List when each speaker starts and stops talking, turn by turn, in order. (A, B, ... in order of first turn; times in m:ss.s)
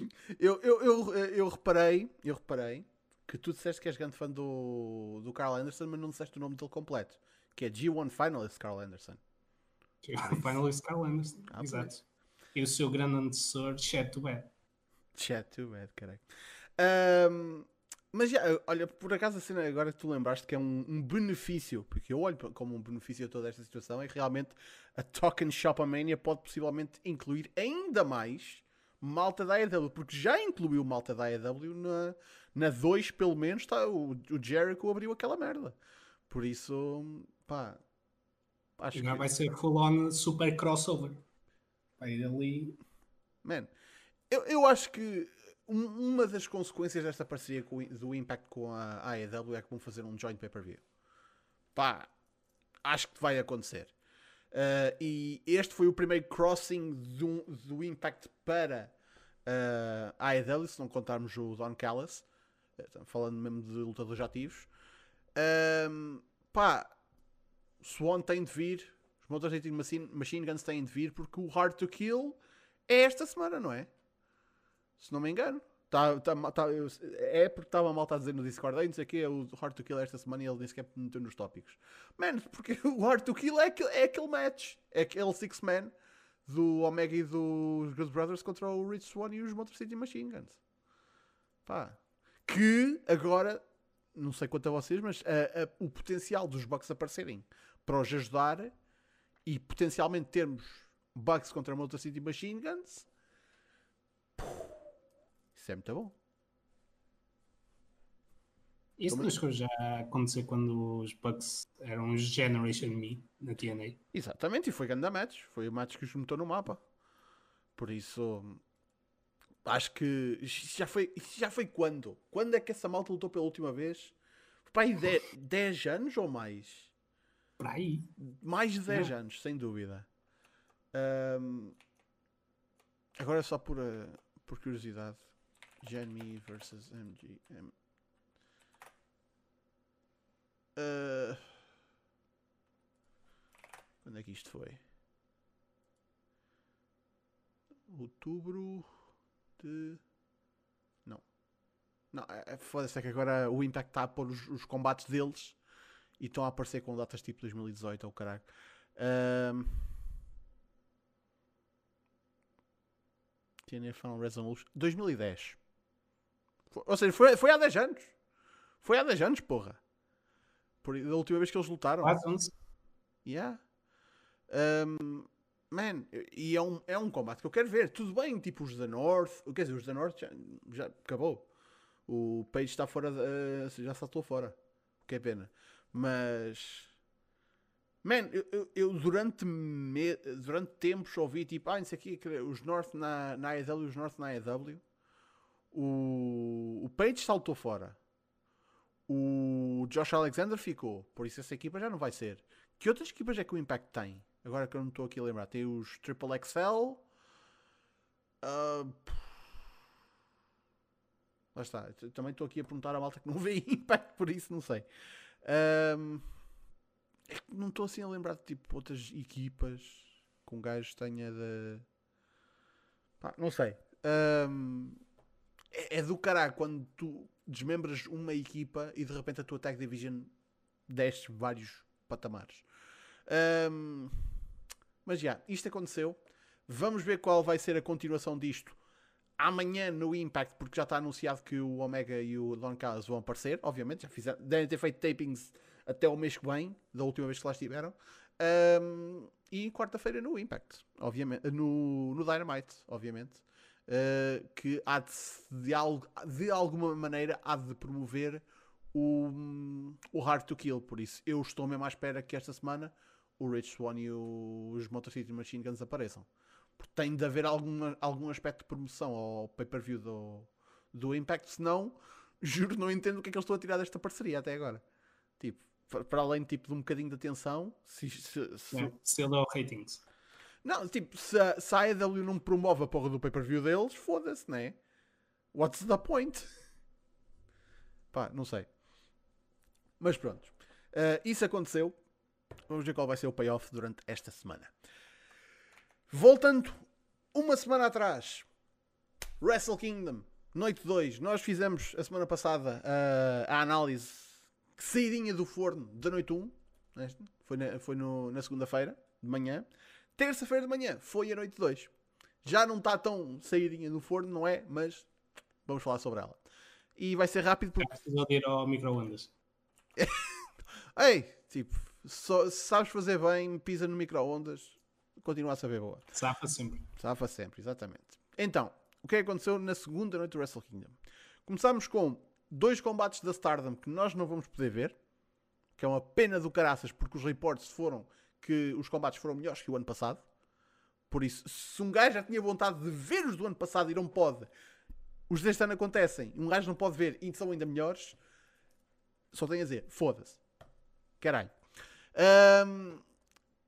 0:00.3-0:09.2 A
0:10.0-0:12.0 B
0:10.2-0:10.6 A
0:11.5-0:11.9 A
0:12.5-0:14.5 B
0:15.2-0:16.2 A
0:16.8-0:35.8 A
0:36.3-0:37.8 A
0:38.8-0:39.3 A
0:38.9-0:41.2 B
0:42.0-0:42.8 B
0:43.4-0:43.7 A
0:44.3-0:50.8 A
0:51.8-0:52.1 A
0:52.8-0:53.9 A
0:54.5-0:58.9 A
0:59.5-1:02.2 A
1:02.8-1:04.7 A
1:05.4-1:07.0 A
1:07.8-1:13.9 A
1:15.0-1:25.9 A
1:26.5-1:30.6 A
1:31.7-1:33.6 A
1:34.1-1:38.7 A
1:39.5-1:43.1 A
1:44.4-1:44.7 A
1:45.6-1:46.2 A
1:49.0-1:54.0 B
1:54.1-1:56.8 A
1:57.8-1:58.6 A
1:59.6-2:04.1 A
2:04.7-2:06.9 A
2:07.6-2:08.1 B
2:08.2-2:10.1 A
2:10.9-2:11.8 A
2:13.2-2:15.3 A
2:15.8-2:17.7 A
2:20.8-2:21.5 A
2:24.0-2:24.8 A
2:27.9-2:28.9 A
2:29.6-2:30.0 A
2:32.1-2:35.6 A
2:36.2-2:39.9 A
2:43.7-2:45.6 A
2:46.7-2:48.2 A
2:48.8-2:49.8 A
2:50.8-2:52.2 A
2:52.0-2:52.5 B
2:53.2-2:53.6 A
2:54.5-3:01.5 A
3:02.1-3:06.9 A
3:08.0-3:14.8 A
3:15.7-3:18.0 A
3:19.1-3:27.0 A
3:28.4-3:29.3 A
3:31.6-3:34.9 A
3:35.4-3:36.3 A
3:37.3-3:41.8 A
3:43.2-3:45.0 A
3:45.7-3:50.3 A
3:50.9-3:52.6 A
3:53.3-3:54.2 A
3:55.0-3:58.8 A
3:59.4-4:26.3 A
4:26.8-4:34.8 A
4:35.4-4:38.9 A
4:38.7-4:40.0 B
4:40.6-4:44.8 A
4:45.5-4:46.5 A
4:48.1-4:48.7 A
4:50.0-4:52.0 A
4:52.7-4:54.7 A
4:56.1-4:58.5 A
4:59.4-5:11.9 A
5:12.4-5:15.1 A
5:15.6-5:16.4 A
5:17.0-5:17.9 A
5:17.8-5:19.3 B
5:20.0-5:20.3 A
5:21.0-5:26.0 A
5:26.1-5:26.9 B
5:27.0-5:35.0 A
5:35.8-5:40.2 A
5:41.1-5:44.5 A
5:45.3-5:48.2 A
5:49.3-5:50.4 A
5:51.2-5:51.6 A
5:52.1-5:53.0 A